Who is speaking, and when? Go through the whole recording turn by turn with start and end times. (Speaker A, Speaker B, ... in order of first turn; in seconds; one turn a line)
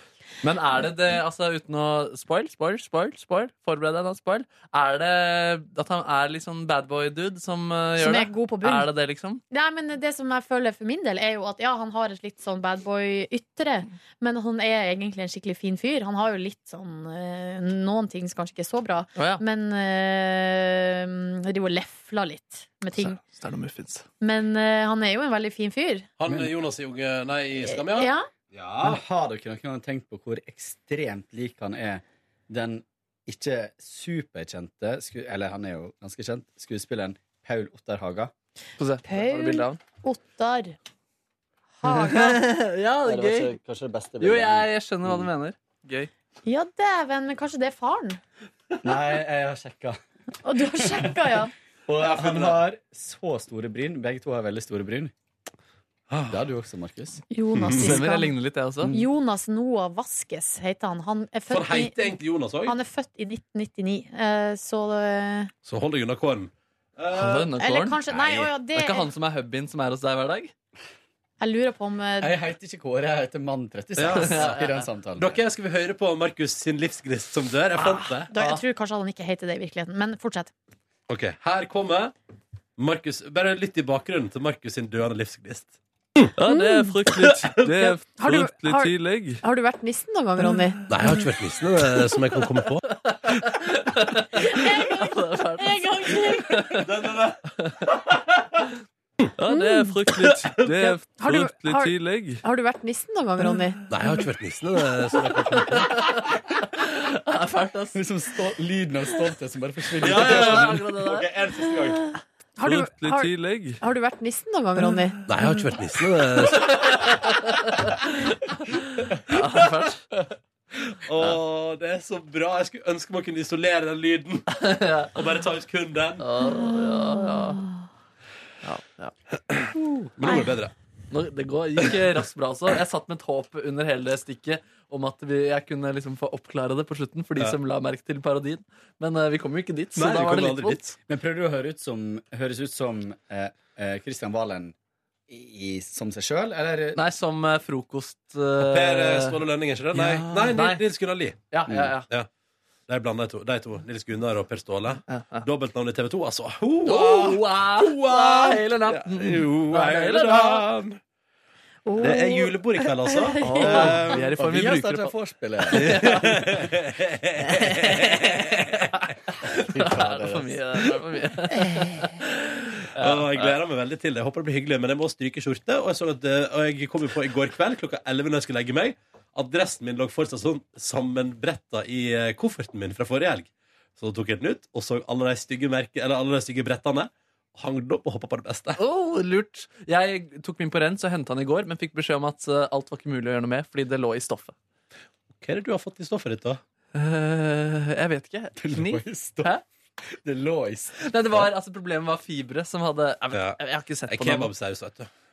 Speaker A: 0.4-9.4
Speaker B: 8.0-8.9
Speaker B: 9.5-23.2
Speaker A: 19.2-19.4
Speaker A: 23.0-24.1
Speaker B: 24.2-26.1
Speaker C: 26.2-29.0
Speaker D: 26.3-26.5
Speaker B: 27.6-28.3
Speaker D: 28.8-38.3
Speaker A: 38.8-39.8
Speaker B: 39.0-40.8
Speaker B: 41.8-42.4
Speaker A: 42.0-43.5
Speaker D: 43.0-45.3
Speaker A: 44.2-46.1
Speaker B: 46.5-48.2
Speaker D: 48.8-50.0
Speaker B: 50.4-51.5
Speaker D: 50.8-51.1
Speaker D: 51.9-55.1
Speaker C: 52.0-52.6
Speaker C: 56.1-56.5
Speaker D: 56.3-57.2
Speaker B: 57.3-62.1
Speaker C: 57.5-58.0
Speaker A: 57.8-59.0
Speaker C: 61.5-62.8
Speaker B: 62.6-65.5
Speaker C: 65.7-67.5
Speaker A: 67.1-68.0
Speaker B: 67.6-69.1
Speaker C: 68.1-68.5
Speaker A: 68.7-70.5
Speaker B: 71.4-72.4
Speaker D: 72.2-75.4
Speaker C: 74.0-78.3
Speaker A: 74.1-74.8
Speaker A: 78.3-78.6
Speaker B: 78.3-80.5
Speaker C: 81.1-82.1
Speaker C: 82.8-86.3
Speaker A: 86.4-89.4
Speaker B: 86.5-86.9
Speaker C: 87.6-87.9
Speaker B: 88.2-90.8
Speaker A: 90.4-91.3
Speaker C: 90.9-93.0
Speaker A: 92.1-96.9
Speaker B: 94.4-96.8
Speaker C: 96.7-97.5
Speaker A: 97.6-97.9
Speaker C: 98.1-98.4
Speaker A: 99.4-102.4
Speaker B: 99.5-99.9
Speaker C: 100.2-101.0
Speaker B: 101.2-103.8
Speaker A: 103.4-103.9
Speaker C: 103.9-106.2
Speaker A: 105.5-108.0
Speaker D: 108.0-110.9
Speaker C: 110.0-112.1
Speaker A: 110.0-111.3
Speaker B: 112.6-115.2
Speaker A: 112.6-113.8
Speaker C: 115.3-117.4
Speaker A: 116.1-120.0
Speaker C: 119.3-119.8
Speaker C: 120.9-126.2
Speaker A: 124.5-125.3
Speaker A: 126.2-127.7
Speaker B: 126.4-127.8
Speaker A: 128.6-129.2
Speaker C: 129.5-130.7
Speaker A: 131.1-140.8
Speaker C: 139.9-140.9
Speaker D: 141.1-144.7
Speaker D: 145.3-147.0
Speaker A: 146.9-149.4
Speaker C: 148.6-151.5
Speaker A: 149.9-150.8
Speaker A: 151.5-152.1
Speaker D: 151.7-151.9
Speaker C: 152.9-161.0
Speaker A: 155.1-155.5
Speaker A: 156.9-160.6
Speaker B: 161.9-164.0
Speaker C: 162.0-164.3
Speaker A: 163.4-166.6
Speaker D: 164.2-166.1
Speaker C: 165.7-169.2
Speaker A: 167.5-168.7
Speaker A: 169.5-173.6
Speaker D: 169.7-170.7
Speaker C: 173.0-188.8
Speaker A: 188.8-194.6
Speaker C: 195.4-196.6
Speaker A: 196.9-199.6
Speaker D: 198.6-199.5
Speaker D: 200.1-201.0
Speaker A: 201.0-204.5
Speaker C: 203.3-205.1